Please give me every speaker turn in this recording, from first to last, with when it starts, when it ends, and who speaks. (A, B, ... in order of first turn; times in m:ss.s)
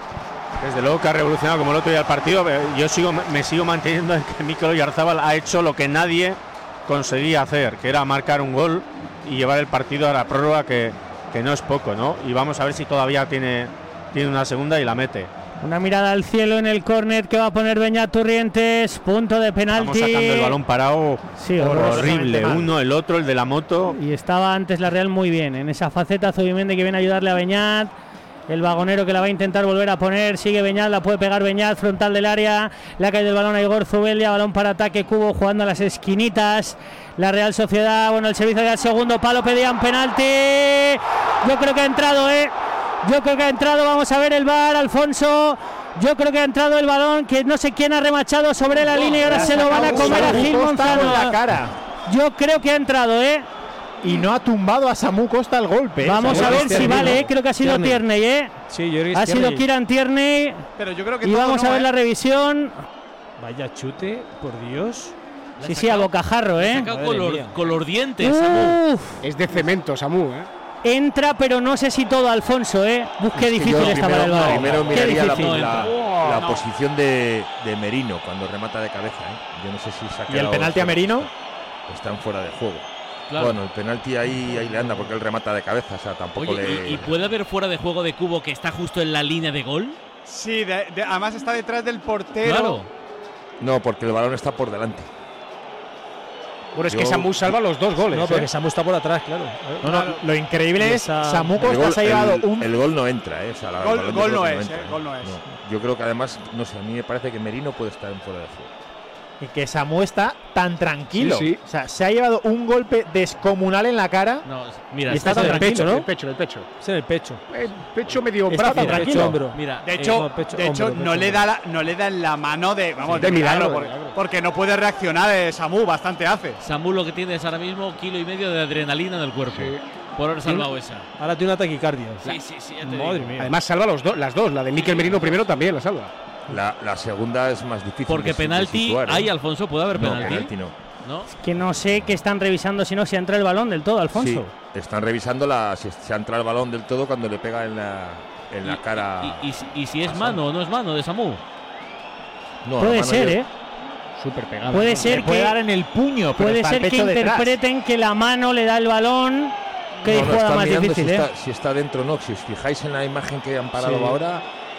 0:00.6-0:15.3 A
0:15.6-0:20.6 B
0:19.7-0:24.0 A
0:21.4-0:22.2 B
0:21.6-0:22.7 C
0:24.0-0:27.9 B
0:28.5-0:42.5 B
0:43.0-0:51.4 B
0:49.3-0:51.7 C
0:49.3-0:50.1 D
0:49.8-0:51.0 E
0:52.1-0:53.5 B
0:54.0-0:57.2 C
0:56.0-0:58.5 B
0:56.2-0:58.0 E
0:58.7-0:59.6 E
0:59.1-1:00.7 B
1:00.8-1:01.9 F
1:01.2-1:02.7 B
1:03.4-1:05.1 E
1:05.6-1:08.8 G
1:05.6-1:06.9 B
1:06.8-1:07.6 E
1:08.2-1:09.2 B
1:09.2-1:10.5 D
1:10.8-1:15.7 B
1:13.3-1:21.3 H
1:13.7-1:16.4 G
1:16.4-1:16.6 F
1:20.3-1:21.3 C
1:21.9-1:27.1 H
1:23.3-1:23.6 G
1:26.4-1:30.0 G
1:30.2-1:32.8 F
1:32.4-1:32.9 G
1:33.6-1:35.1 H
1:36.7-1:38.5 D
1:36.9-1:37.6 H
1:38.1-1:40.2 E
1:39.8-1:42.7 C
1:40.8-1:41.6 E
1:41.6-1:48.7 H
1:43.8-1:45.4 F
1:49.4-1:54.4 C
1:51.2-1:51.6 D
1:54.4-1:55.6 G
1:55.0-1:56.0 C
1:55.1-1:56.7 D
1:55.1-1:56.1 E
1:56.8-1:57.4 E
1:57.5-1:59.4 D
1:58.5-1:59.4 C
1:58.5-2:01.5 E
1:59.5-2:00.2 G
1:59.8-2:06.6 F
2:03.0-2:03.3 G
2:03.1-2:04.2 D
2:06.6-2:11.1 G
2:09.5-2:09.8 D
2:11.2-2:12.3 E
2:12.2-2:13.4 G
2:12.8-2:13.5 E
2:13.4-2:16.1 D
2:14.7-2:15.4 G
2:16.5-2:19.3 H
2:18.0-2:20.5 G
2:19.9-2:20.8 H
2:21.0-2:21.3 G
2:21.4-2:24.5 B
2:21.7-2:22.1 H
2:24.1-2:29.4 H
2:28.6-2:31.4 G
2:30.1-2:30.4 C
2:32.6-2:33.4 H
2:32.8-2:33.5 B
2:34.2-2:35.3 D
2:34.7-2:35.6 B
2:34.9-2:37.6 C
2:36.4-2:41.2 B
2:40.0-2:44.4 H
2:43.8-2:44.2 D